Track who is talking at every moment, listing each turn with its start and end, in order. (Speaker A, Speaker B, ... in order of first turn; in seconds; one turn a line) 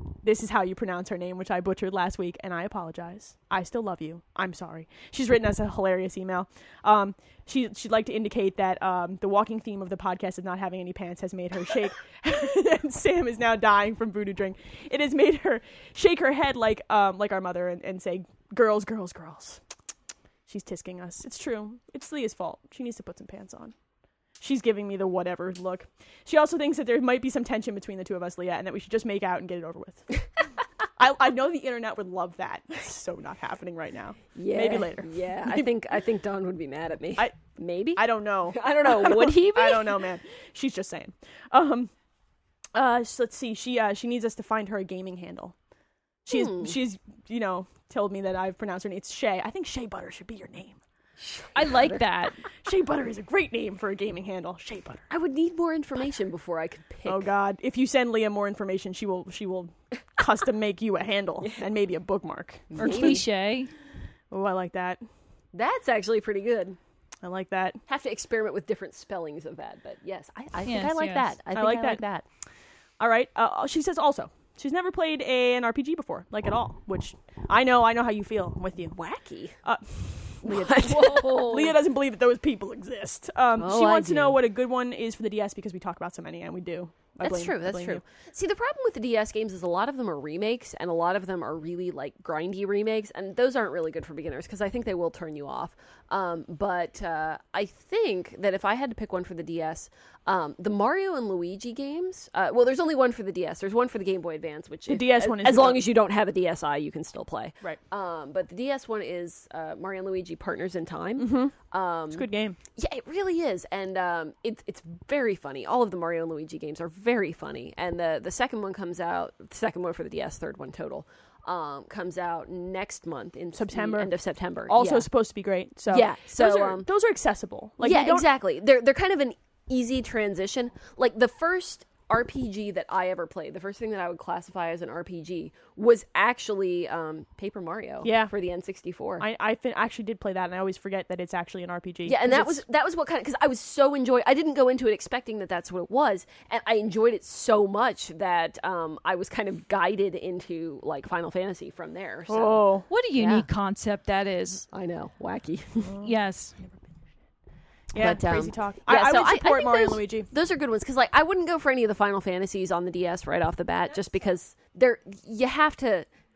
Speaker A: 0.2-19.6
Speaker A: 20.5-23.7
Speaker A: 24.4-30.2
Speaker A: 30.9-35.7
Speaker B: 34.3-40.0
Speaker A: 38.0-41.9
Speaker A: 42.7-45.5
Speaker A: 46.2-50.8
Speaker B: 46.3-46.8
Speaker B: 51.2-52.0
Speaker C: 51.5-52.4
Speaker A: 52.6-55.1
Speaker B: 55.1-57.3
Speaker A: 57.0-63.2
Speaker B: 61.4-61.7
Speaker B: 62.7-63.2
Speaker C: 62.8-63.7
Speaker A: 64.3-65.0
Speaker B: 65.5-66.8
Speaker A: 67.2-67.8
Speaker B: 67.9-72.2
Speaker C: 70.6-71.3
Speaker A: 71.5-72.0
Speaker A: 73.0-79.0
Speaker B: 78.9-79.6
Speaker A: 79.6-88.0
Speaker B: 80.4-81.8
Speaker B: 83.5-84.4
Speaker B: 87.2-125.1
Speaker A: 104.9-105.9
Speaker A: 111.2-111.5
Speaker A: 112.1-112.6
Speaker A: 123.5-124.1
Speaker A: 124.7-128.3
Speaker B: 125.9-126.9
Speaker B: 127.8-139.2
Speaker A: 138.0-138.3
Speaker A: 139.2-142.6
Speaker B: 142.1-153.5
Speaker A: 152.3-152.9
Speaker C: 152.9-154.6
Speaker B: 154.7-155.9
Speaker A: 155.8-156.8
Speaker C: 156.0-156.6
Speaker A: 157.9-160.3
Speaker B: 157.9-166.1